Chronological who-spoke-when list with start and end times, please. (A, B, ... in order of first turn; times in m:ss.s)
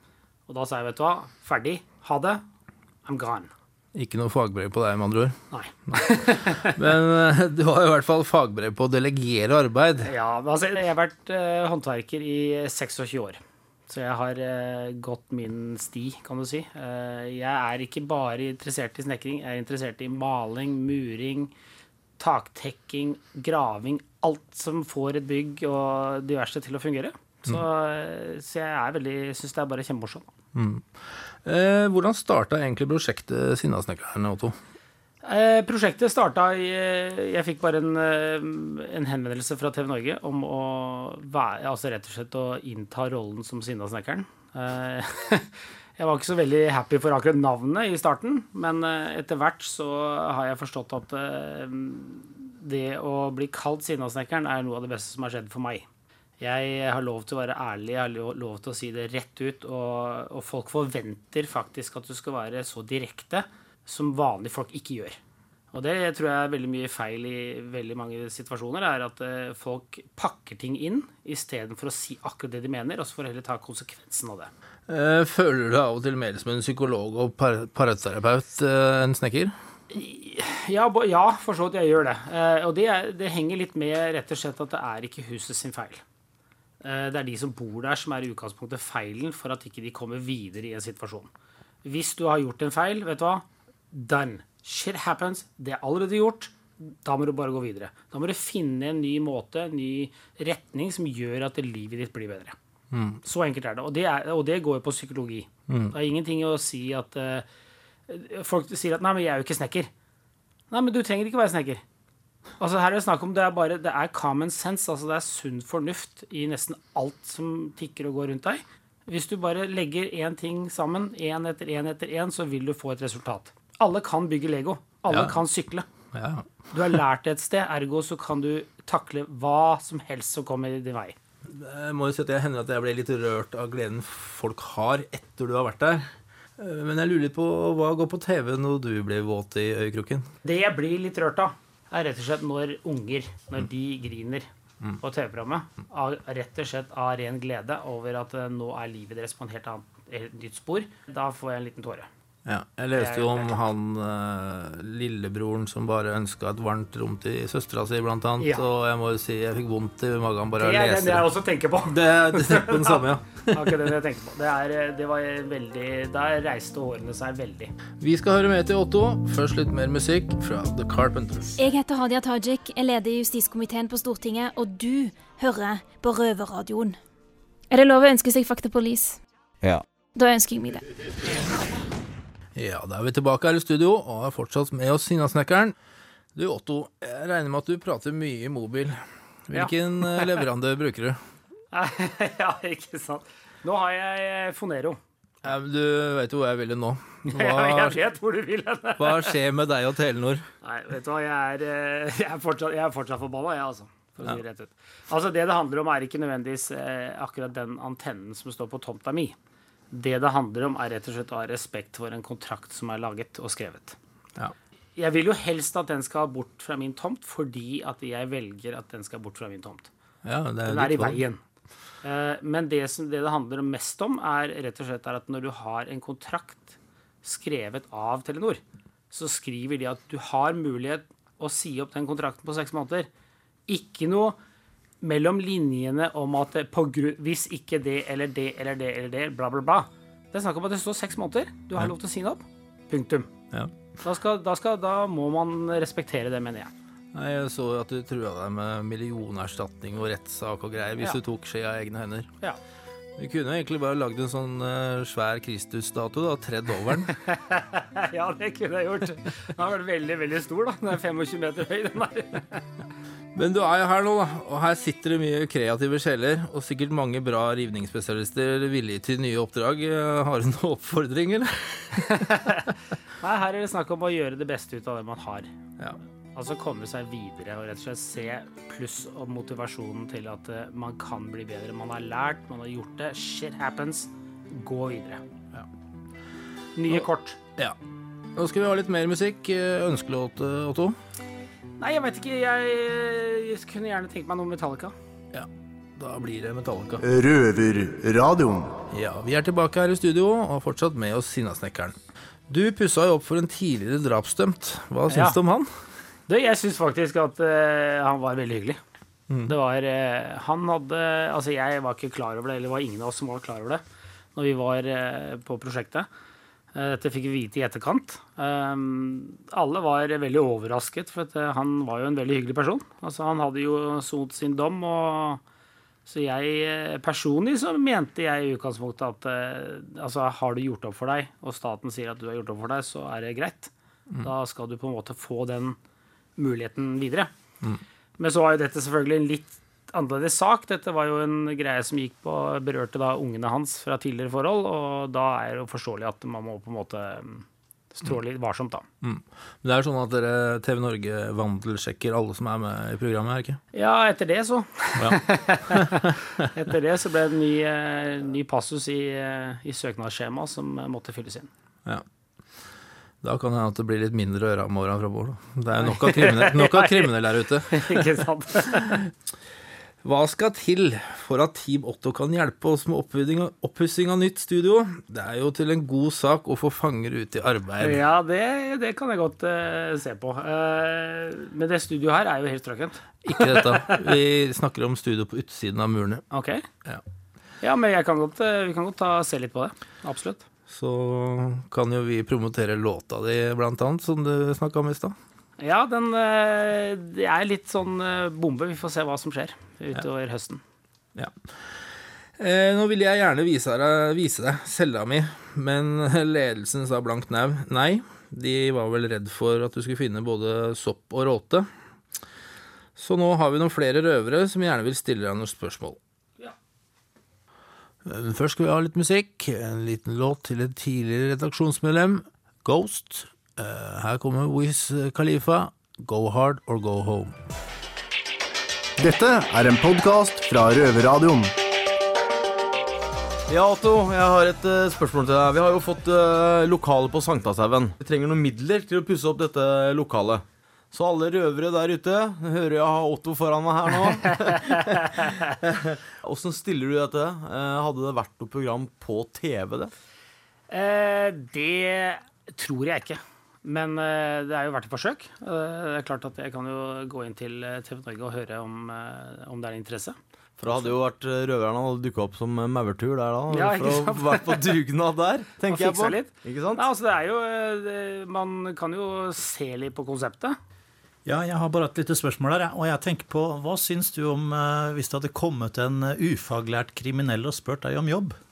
0:00.5-0:02.4 A
0:03.0-0:03.5 A
0:03.9-0:05.4 B
0:05.5-0:06.8 A
0:05.9-0:10.1 B
0:10.0-0:21.5 A
0:22.2-0:30.3 A
0:30.5-0:34.6 B
0:35.2-0:55.8 A
0:56.4-1:05.2 A
1:05.7-1:14.5 A
1:14.9-1:19.5 B
1:19.9-1:26.0 A
1:26.8-1:31.3 A
1:31.8-1:42.6 A
1:42.9-1:43.2 B
1:43.2-1:47.4 A
1:45.7-1:45.9 B
1:48.1-1:49.9 A
1:50.7-1:51.8 A
1:52.6-2:05.8 A
2:05.1-2:05.4 B
2:06.1-2:06.4 B
2:06.7-2:11.2 A
2:11.5-2:20.3 B
2:20.4-2:24.5 A
2:25.0-2:32.1 A
2:32.4-2:41.2 B
2:32.9-2:33.5 A
2:38.4-2:38.6 A
2:40.6-2:47.7 A
2:41.9-2:43.8 B
2:48.0-2:51.5 B
2:51.6-2:57.0 C
2:57.7-2:59.2 C
3:00.1-3:00.8 C
3:02.5-3:05.7 B
3:06.3-3:11.2 B
3:09.5-3:10.4 A
3:11.7-3:15.0 A
3:15.4-3:18.0 B
3:17.3-3:19.4 A
3:19.0-3:20.4 B
3:20.6-3:29.4 A
3:29.9-3:34.0 A
3:35.0-3:39.9 A
3:40.2-3:41.2 B
3:40.6-3:41.4 A
3:42.0-3:53.1 A
3:53.7-3:54.4 A
3:55.0-4:03.3 A
4:04.0-4:06.7 A
4:07.1-4:12.3 B
4:13.2-4:17.1 B
4:17.2-4:22.6 A
4:23.3-4:32.7 B
4:32.0-4:35.5 A
4:36.3-4:45.2 A
4:46.8-4:47.4 A
4:48.4-4:51.0 B
4:51.8-4:54.9 A
4:55.3-4:57.0 B
4:57.0-4:58.7 D
4:58.9-5:01.9 B
5:02.5-5:05.7 B
5:05.1-5:05.4 A
5:06.3-5:08.8 A
5:09.4-5:13.8 A
5:14.3-5:16.1 A
5:16.7-5:25.4 A
5:26.0-5:35.8 A
5:36.4-5:37.3 A
5:38.2-5:48.8 A
5:49.0-5:53.6 B
5:53.7-6:01.5 A
5:55.0-5:56.4 B
6:03.2-6:08.1 B
6:05.8-6:07.1 A
6:07.7-6:08.9 A
6:08.7-6:09.1 B
6:10.0-6:18.0 B
6:17.8-6:24.1 A
6:23.2-6:26.2 B
6:26.3-6:26.6 A
6:27.6-6:30.4 A
6:30.7-6:35.1 B
6:35.6-6:40.6 A
6:41.2-6:41.5 B
6:42.4-6:51.7 B
6:53.0-6:56.0 B
6:58.0-7:07.4 B
7:09.0-7:11.5 D
7:13.5-7:29.9 E
7:24.2-7:25.5 A
7:30.7-7:40.2 A
7:40.6-7:46.8 E
7:43.5-7:44.7 A
7:45.7-7:50.6 A
7:51.2-7:58.4 F